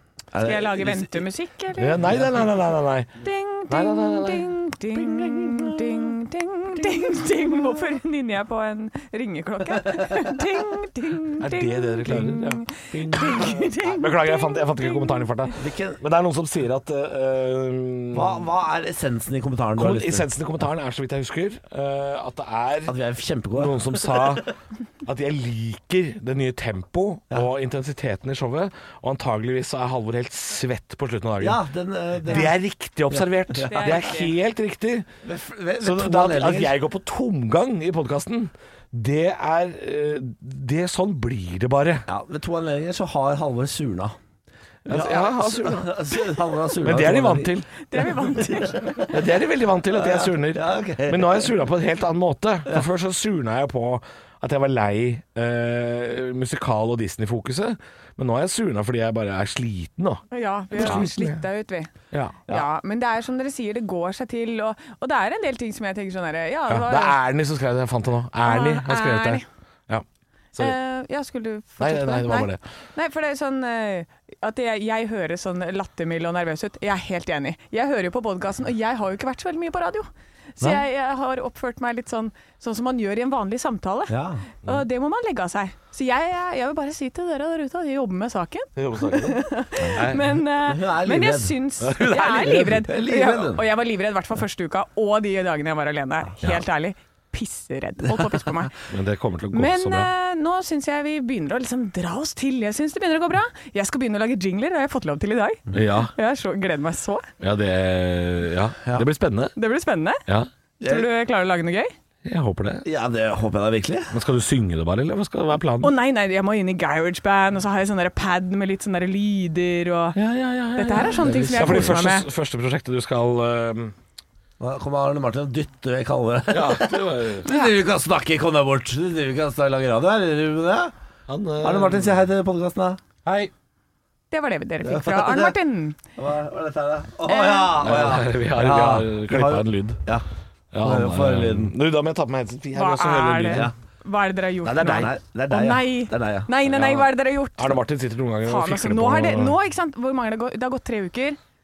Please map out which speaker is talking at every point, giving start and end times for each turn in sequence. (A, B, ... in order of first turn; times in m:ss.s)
0:00.3-0:01.3 A
0:00.4-0:02.0 B
0:01.8-0:03.1 C
0:03.2-0:15.5 B
0:03.7-0:06.1 C
0:11.4-0:18.4 C
0:15.6-0:16.0 A
0:18.1-0:20.3 A
0:19.8-0:22.9 C
0:22.9-0:24.3 A
0:23.6-0:24.5 C
0:25.0-0:31.6 C
0:31.4-0:32.5 A
0:32.2-0:35.1 C
0:33.2-0:34.0 A
0:33.7-0:34.3 B
0:35.2-0:36.7 A
0:35.8-0:42.0 C
0:42.1-0:44.2 A
0:44.8-0:47.5 A
0:44.9-0:46.2 C
0:46.8-0:47.7 C
0:47.9-0:49.1 B
0:48.4-0:48.9 A
0:49.0-1:01.4 C
0:49.9-0:51.5 A
1:00.3-1:01.9 B
1:00.8-1:01.0 A
1:02.1-1:02.5 C
1:02.5-1:07.2 B
1:06.7-1:10.8 C
1:08.4-1:09.4 B
1:10.6-1:38.7 B
1:11.8-1:12.6 C
1:24.1-1:24.5 A
1:28.8-1:29.4 C
1:30.0-1:30.3 C
1:30.6-1:33.6 A
1:31.8-1:32.6 C
1:38.9-1:40.1 C
1:39.5-1:47.3 B
1:45.7-1:46.1 C
1:47.4-1:49.5 C
1:49.6-1:50.2 B
1:50.8-1:51.1 A
1:50.8-1:51.9 B
1:52.2-1:52.8 C
1:52.8-1:54.1 A
1:54.1-1:55.9 C
1:55.8-2:00.2 B
2:00.1-2:04.0 C
2:00.8-2:02.3 B
2:04.6-2:10.9 A
2:06.5-2:07.5 C
2:07.5-2:07.7 B
2:11.3-2:12.2 C
2:11.6-2:13.0 A
2:13.3-2:13.5 C
2:14.3-2:16.0 B
2:14.8-2:15.6 A
2:16.2-2:20.3 A
2:17.3-2:17.8 B
2:17.8-2:20.0 C
2:20.7-2:23.7 C
2:20.8-2:21.7 A
2:22.7-2:27.8 B
2:24.6-2:25.1 C
2:24.8-2:26.5 A
2:26.7-2:29.6 C
2:28.4-2:31.4 B